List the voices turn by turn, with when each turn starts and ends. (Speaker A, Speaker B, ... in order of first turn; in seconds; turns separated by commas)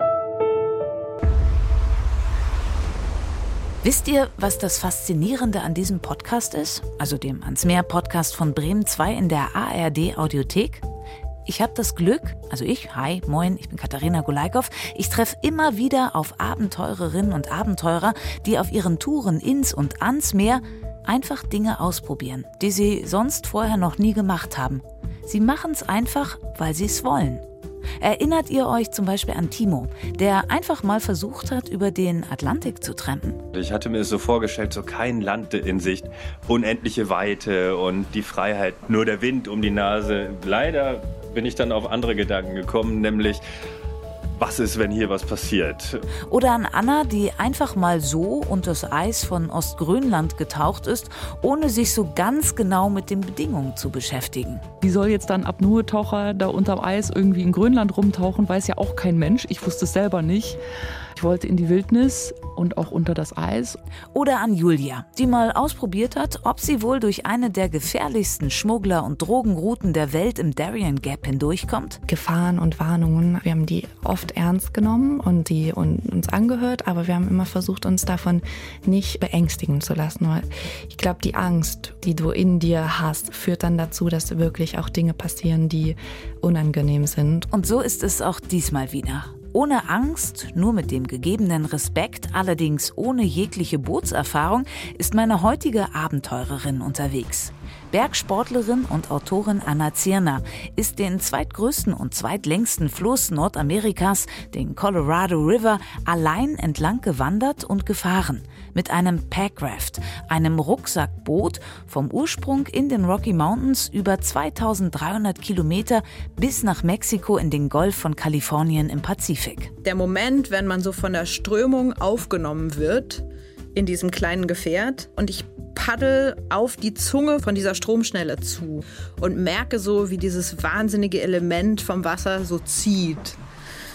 Speaker A: 3.8-10.8, Speaker A: 11.4-27.4, Speaker A: 28.0-33.4, Speaker B: 33.5-43.4, Speaker B: 44.3-46.0, Speaker A: 46.3-54.7, Speaker C: 54.8-60.6, Speaker C: 61.1-63.8, Speaker A: 64.1-72.0, Speaker D: 72.1-87.5, Speaker A: 87.5-119.7, Speaker E: 119.8-123.2, Speaker E: 123.7-133.4